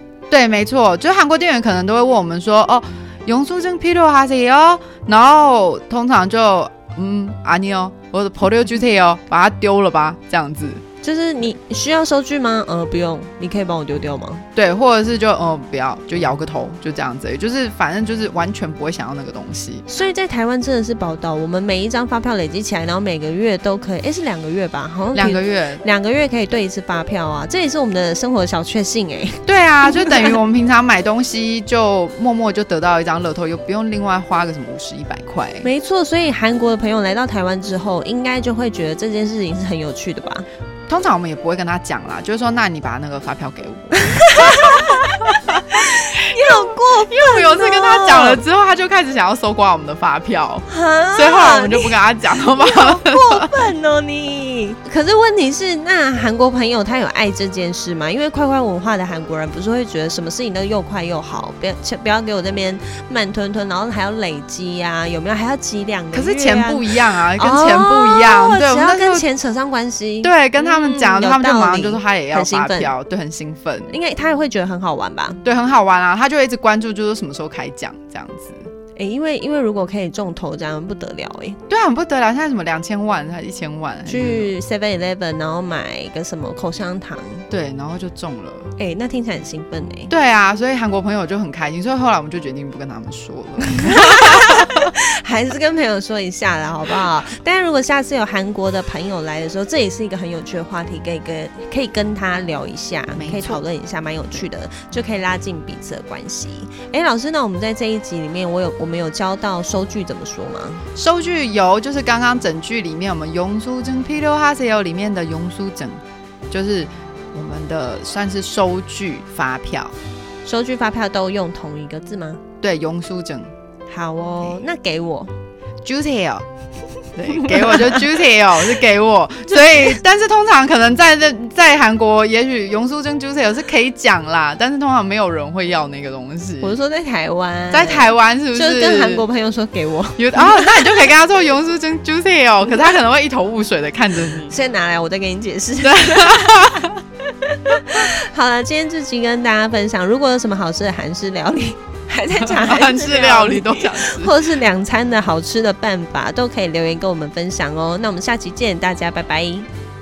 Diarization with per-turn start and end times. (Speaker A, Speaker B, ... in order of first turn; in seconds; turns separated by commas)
Speaker A: 0.3-10.8, Speaker B: 11.0-14.4, Speaker A: 14.6-19.8, Speaker B: 19.9-30.3, Speaker A: 25.1-25.8, Speaker A: 29.4-35.7, Speaker B: 35.6-40.5, Speaker A: 40.9-53.6, Speaker B: 44.0-48.4, Speaker B: 50.7-52.0, Speaker B: 52.5-72.9, Speaker A: 66.1-69.2, Speaker A: 70.2-73.9, Speaker B: 73.9-75.4, Speaker A: 75.4-78.7, Speaker B: 79.0-81.6, Speaker A: 81.7-84.5, Speaker B: 84.0-87.4, Speaker A: 87.5-88.7, Speaker B: 88.8-90.1, Speaker A: 90.1-94.9, Speaker B: 93.8-110.8, Speaker A: 103.2-103.6, Speaker A: 111.0-119.9, Speaker B: 120.4-122.4, Speaker A: 122.6-123.5, Speaker B: 123.9-125.3, Speaker A: 125.8-126.5, Speaker A: 127.2-136.8, Speaker B: 127.5-127.9, Speaker B: 129.5-130.0, Speaker B: 136.6-140.9, Speaker A: 137.7-139.2, Speaker A: 140.2-144.5, Speaker B: 144.4-146.9, Speaker A: 145.8-146.9, Speaker B: 147.4-159.7, Speaker A: 152.4-154.3